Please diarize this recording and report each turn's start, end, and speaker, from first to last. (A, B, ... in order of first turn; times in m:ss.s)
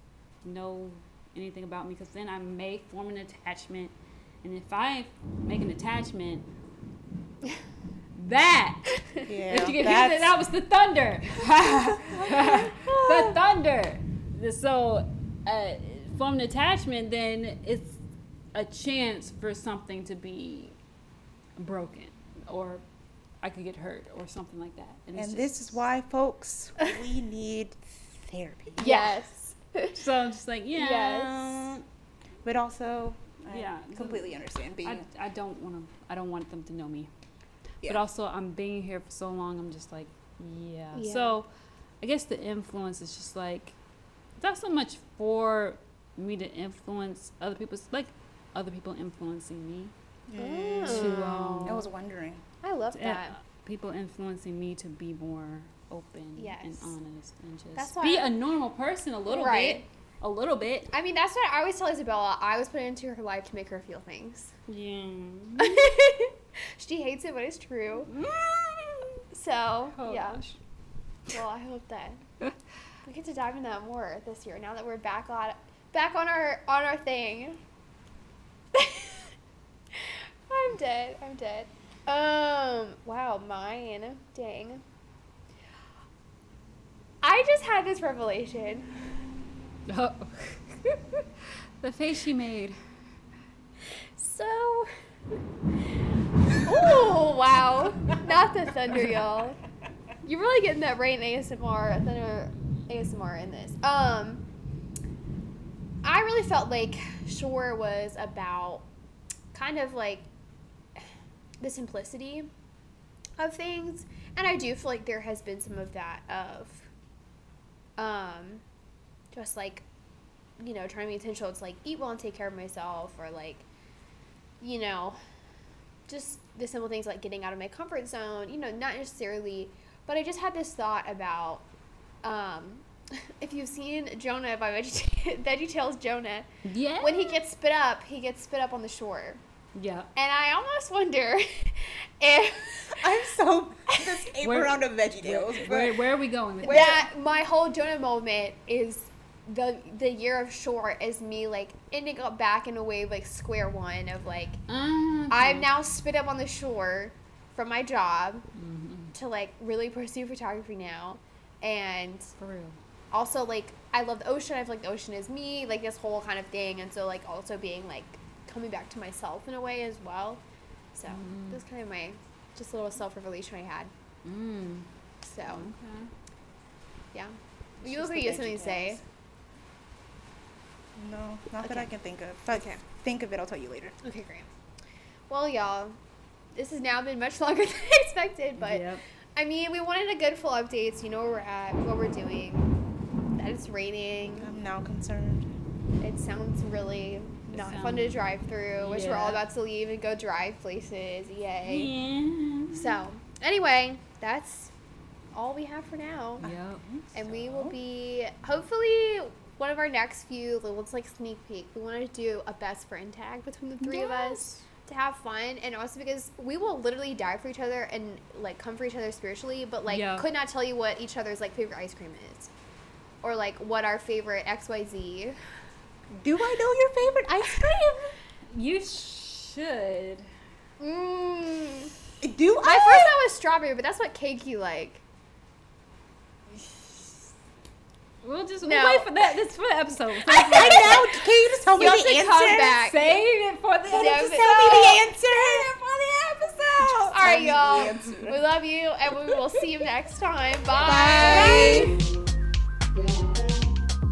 0:00.4-0:06.5 A
0:08.2-0:18.0 A
0:09.3-0:10.4 B
0:12.2-0:12.6 B
0:12.3-0:13.3 C
0:18.5-0:20.8 A
0:21.6-0:22.8 A
0:23.4-0:25.8 A
0:25.2-0:28.9 B
0:28.8-0:30.0 C
0:28.8-0:29.2 A
0:29.9-0:31.8 A
0:30.8-0:31.8 C
0:32.4-0:35.1 B
0:33.5-0:37.1 A
0:37.8-0:41.5 A
0:41.0-0:41.4 C
0:42.0-0:43.8 A
0:44.4-0:49.9 A
0:50.3-0:52.4 B
0:50.4-0:51.8 C
0:50.9-0:51.9 A
0:52.6-0:53.4 C
0:52.9-1:00.9 A
0:56.4-0:56.9 C
0:57.8-0:58.3 C
0:59.3-0:59.8 C
1:00.9-1:04.5 C
1:04.7-1:05.8 A
1:05.6-1:08.1 C
1:08.1-1:09.2 A
1:09.3-1:10.4 C
1:09.9-1:10.6 A
1:11.3-1:12.2 C
1:13.0-1:17.6 C
1:18.7-1:19.3 C
1:19.9-1:24.8 C
1:27.2-1:28.9 C
1:29.9-1:31.3 A
1:31.8-1:32.8 A
1:34.2-1:34.9 C
1:36.6-1:39.6 C
1:40.2-1:44.4 C
1:46.0-1:48.9 C
1:49.5-1:50.3 C
1:51.6-1:52.5 C
1:53.4-1:56.9 C
1:58.0-1:58.6 C
1:59.3-1:59.8 C
2:00.6-2:03.7 C
2:04.6-2:05.2 C
2:06.1-2:11.6 C
2:12.2-2:16.5 C
2:16.6-2:17.4 A
2:17.0-2:19.4 C
2:19.8-2:20.1 A
2:20.2-2:23.0 C
2:22.9-2:26.0 B
2:23.9-2:24.2 C
2:24.4-2:27.1 A
2:26.6-2:27.0 B
2:26.6-2:34.6 C
2:34.7-2:35.7 A
2:35.3-2:38.4 C
2:38.5-2:39.2 A
2:39.1-2:42.3 C
2:42.4-2:42.8 A
2:43.1-2:50.4 C
2:50.9-2:53.9 C
2:51.1-2:51.6 A
2:54.2-2:54.9 A
2:55.2-2:55.7 C
2:55.5-2:56.1 A
2:57.1-2:59.0 C
2:57.8-2:59.0 B
3:01.0-3:04.0 B
3:01.6-3:01.9 C
3:02.5-3:02.8 C
3:04.0-3:04.5 C
3:05.3-3:06.0 C
3:06.6-3:12.7 C
3:08.6-3:09.0 A
3:13.4-3:14.5 C
3:14.4-3:15.5 B
3:16.0-3:21.9 C
3:17.5-3:19.4 A
3:21.6-3:23.0 A
3:22.7-3:24.7 C
3:25.3-3:26.5 C
3:26.4-3:27.7 A
3:26.4-3:27.7 B
3:27.1-3:42.5 C
3:33.8-3:34.6 B
3:39.9-3:40.3 A
3:43.2-3:45.4 C
3:46.1-3:47.8 B
3:47.3-3:48.1 C
3:48.5-3:50.3 A
3:50.8-3:51.9 C
3:52.2-3:53.2 B
3:52.6-3:55.0 C
3:56.5-3:57.3 A
3:58.2-4:01.2 A
3:58.6-3:59.1 C
4:00.2-4:02.8 B
4:00.5-4:01.0 C
4:01.7-4:03.2 C
4:02.4-4:07.3 A
4:03.9-4:05.7 B
4:03.9-4:05.0 C
4:06.8-4:08.4 B
4:07.0-4:12.0 C
4:10.7-4:12.0 B
4:11.1-4:11.9 A
4:13.0-4:13.2 A